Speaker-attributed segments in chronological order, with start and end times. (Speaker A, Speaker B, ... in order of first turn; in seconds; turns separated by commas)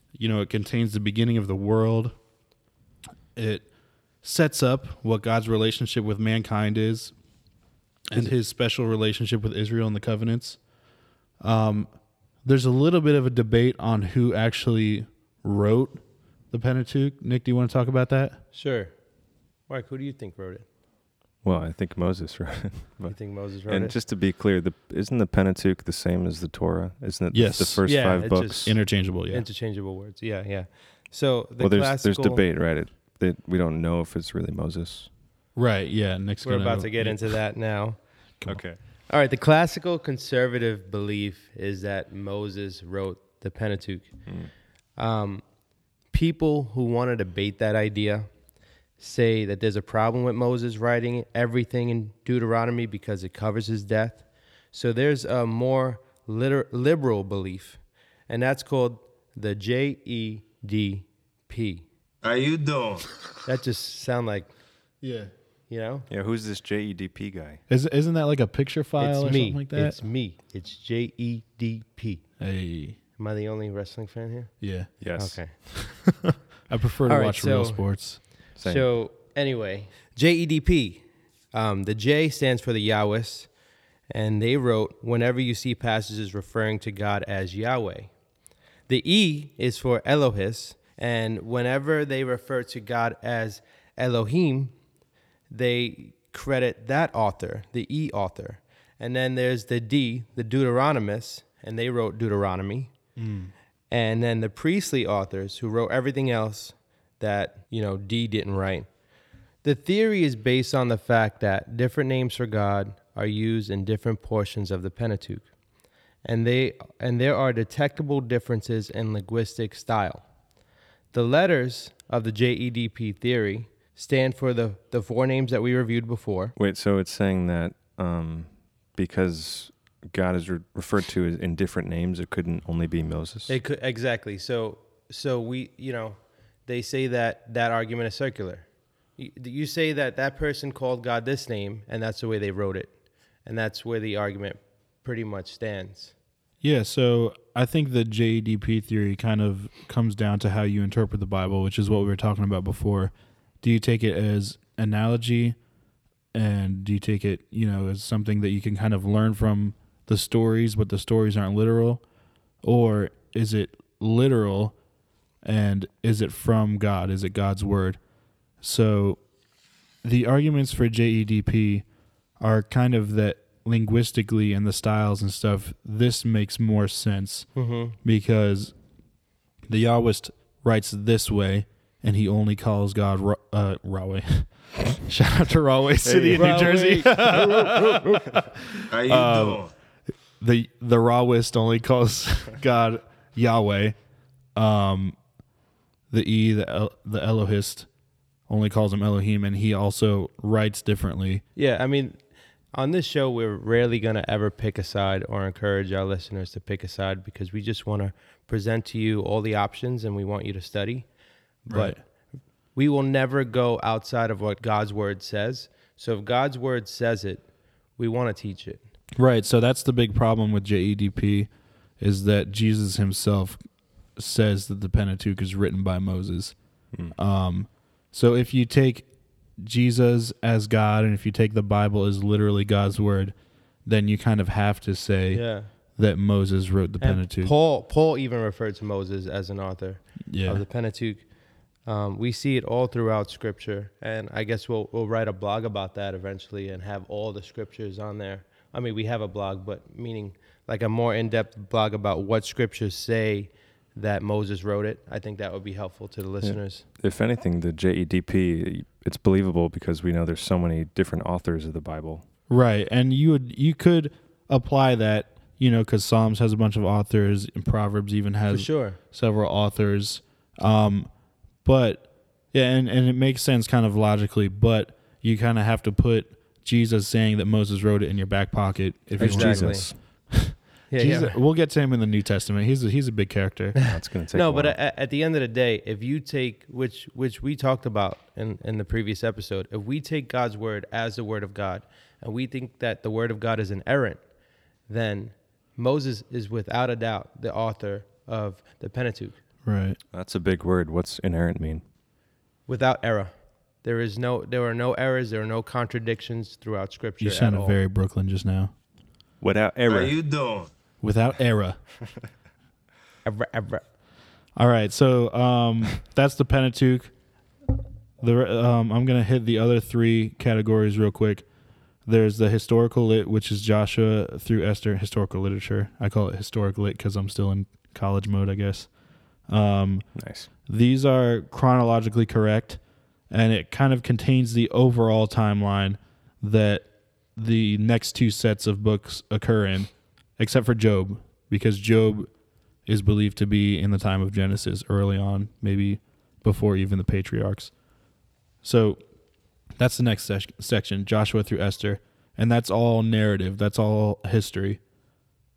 Speaker A: 0.1-2.1, Speaker A: 3.4-3.7, Speaker A: 4.2-7.1, Speaker A: 8.1-10.6, Speaker A: 11.4-11.9, Speaker A: 12.4-16.0, Speaker A: 16.5-18.4, Speaker B: 18.5-18.9, Speaker B: 19.7-20.6, Speaker C: 21.4-28.7, Speaker B: 23.1-24.0, Speaker A: 27.3-27.9, Speaker B: 27.9-28.8, Speaker A: 28.6-29.5, Speaker B: 29.3-32.4, Speaker C: 31.6-35.1, Speaker A: 35.6-37.4, Speaker B: 36.4-38.0, Speaker C: 38.5-38.8, Speaker B: 39.1-44.1, Speaker B: 45.0-45.4, Speaker B: 46.1-48.3, Speaker B: 49.0-61.9, Speaker D: 62.2-63.0, Speaker B: 63.5-64.5, Speaker A: 65.0-65.3, Speaker B: 65.7-66.1, Speaker C: 66.1-67.6, Speaker A: 67.7-70.0, Speaker B: 69.0-72.2, Speaker A: 72.4-73.0, Speaker B: 73.2-74.5, Speaker A: 74.6-74.9, Speaker C: 75.0-75.6, Speaker B: 75.2-76.0, Speaker A: 75.9-78.2, Speaker B: 77.1-77.9, Speaker C: 78.6-78.9, Speaker B: 78.6-83.5, Speaker B: 84.1-88.1, Speaker B: 88.9-94.7, Speaker B: 95.5-102.9, Speaker A: 103.2-103.5, Speaker B: 103.9-108.9, Speaker B: 109.6-115.5, Speaker B: 116.2-120.2, Speaker B: 121.1-126.5, Speaker C: 126.6-133.6, Speaker B: 133.5-138.7, Speaker B: 139.2-142.9, Speaker B: 143.5-146.1, Speaker A: 146.6-155.6, Speaker A: 156.3-162.0, Speaker A: 162.6-164.8, Speaker A: 165.4-168.0, Speaker A: 168.6-169.2, Speaker A: 170.0-171.8, Speaker A: 172.4-177.5, Speaker B: 177.6-178.0, Speaker A: 178.0-178.7, Speaker A: 179.7-189.7, Speaker B: 186.1-188.3, Speaker C: 186.1-186.7, Speaker D: 189.0-189.6, Speaker A: 190.4-194.0, Speaker A: 194.6-195.2, Speaker A: 196.1-197.9, Speaker A: 198.5-201.4, Speaker B: 201.6-202.2, Speaker B: 202.7-211.1, Speaker B: 211.7-212.0, Speaker A: 211.7-212.0, Speaker B: 212.8-217.4, Speaker B: 218.0-218.8, Speaker A: 219.2-221.5, Speaker A: 222.0-223.6, Speaker A: 224.2-226.6, Speaker A: 227.1-229.1, Speaker A: 229.6-233.3, Speaker A: 233.9-235.4, Speaker B: 235.3-235.7, Speaker A: 236.0-237.5, Speaker B: 237.0-241.2, Speaker A: 240.3-240.6, Speaker B: 241.9-256.8, Speaker C: 256.4-262.2, Speaker A: 262.5-271.1, Speaker B: 268.5-269.0, Speaker A: 271.6-283.8, Speaker C: 279.2-279.9, Speaker B: 279.2-279.9, Speaker B: 280.9-281.4, Speaker B: 283.8-294.2, Speaker C: 283.8-284.8, Speaker B: 294.9-299.4, Speaker A: 299.6-300.0, Speaker C: 300.1-301.8, Speaker B: 302.7-303.3, Speaker B: 303.8-307.8, Speaker A: 307.2-308.7, Speaker C: 309.4-310.7, Speaker D: 309.9-310.7, Speaker A: 311.0-311.8, Speaker B: 313.2-313.8, Speaker A: 314.6-317.1, Speaker A: 318.2-321.4, Speaker A: 322.1-328.9, Speaker A: 329.5-330.1, Speaker C: 330.2-330.5, Speaker A: 330.7-342.3, Speaker A: 342.9-347.7, Speaker A: 348.6-349.0, Speaker A: 349.8-354.8